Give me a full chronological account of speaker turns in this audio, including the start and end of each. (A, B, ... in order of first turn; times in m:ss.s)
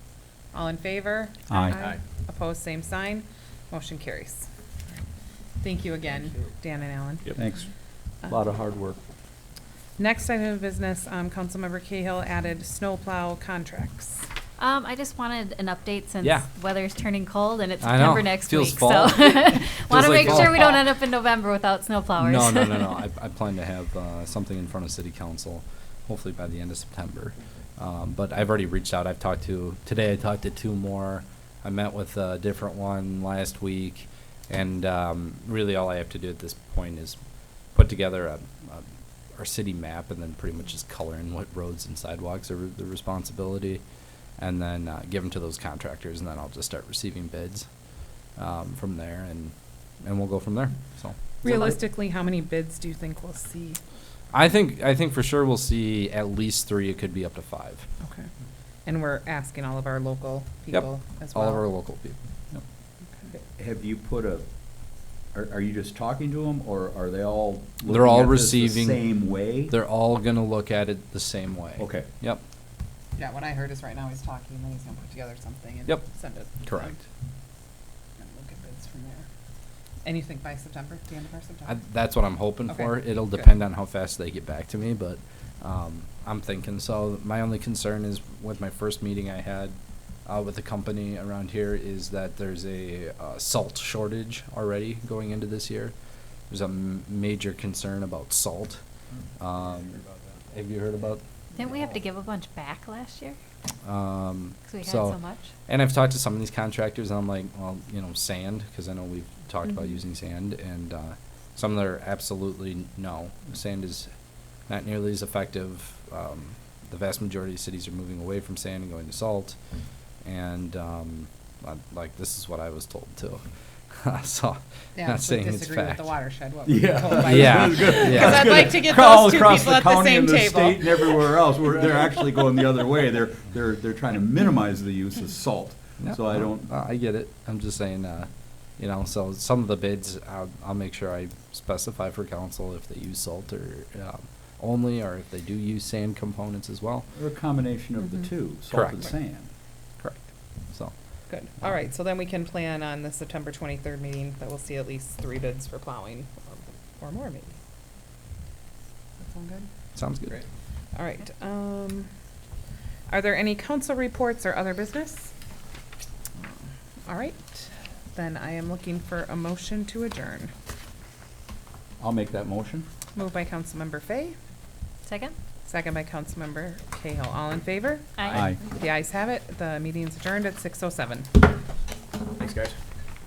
0:00.5-0:04.5 A
0:01.5-0:01.9 B
0:05.6-0:07.3 A
0:07.3-0:07.7 B
0:08.3-0:09.0 B
0:10.0-0:14.2 A
0:14.6-0:23.0 C
0:17.8-0:20.8 D
0:22.2-0:37.2 D
0:37.7-0:38.8 D
0:39.4-0:43.8 D
0:44.4-0:47.6 D
0:48.4-0:51.8 D
0:51.4-0:53.8 A
0:54.3-0:57.8 D
0:58.8-1:01.7 A
1:00.7-1:02.2 D
1:03.5-1:04.5 B
1:05.3-1:09.7 B
1:07.8-1:09.2 D
1:09.7-1:12.4 D
1:11.8-1:12.1 B
1:13.2-1:17.0 A
1:16.6-1:17.0 D
1:18.2-1:19.2 A
1:20.0-1:21.8 A
1:21.6-1:35.9 D
1:36.5-1:38.8 D
1:39.4-1:41.2 D
1:41.5-1:43.4 C
1:43.8-1:54.1 D
1:44.7-1:45.4 C
1:54.7-1:59.6 D
2:00.2-2:03.4 D
2:03.9-2:06.1 D
2:05.0-2:11.3 A
2:06.6-2:16.7 B
2:07.2-2:08.7 D
2:16.0-2:27.1 D
2:27.1-2:29.5 B
2:28.7-2:29.2 D
2:30.0-2:30.9 D
2:31.3-2:37.6 A
2:39.2-2:39.7 A
2:40.0-2:40.4 D
2:40.9-2:42.1 A
2:43.1-2:45.3 A
2:47.0-2:50.5 A
2:52.0-2:52.9 B
2:53.1-2:54.4 A
2:55.0-2:55.4 C
2:55.6-3:01.3 A
2:58.2-2:58.6 C
2:58.3-2:58.6 B
3:02.4-3:02.7 B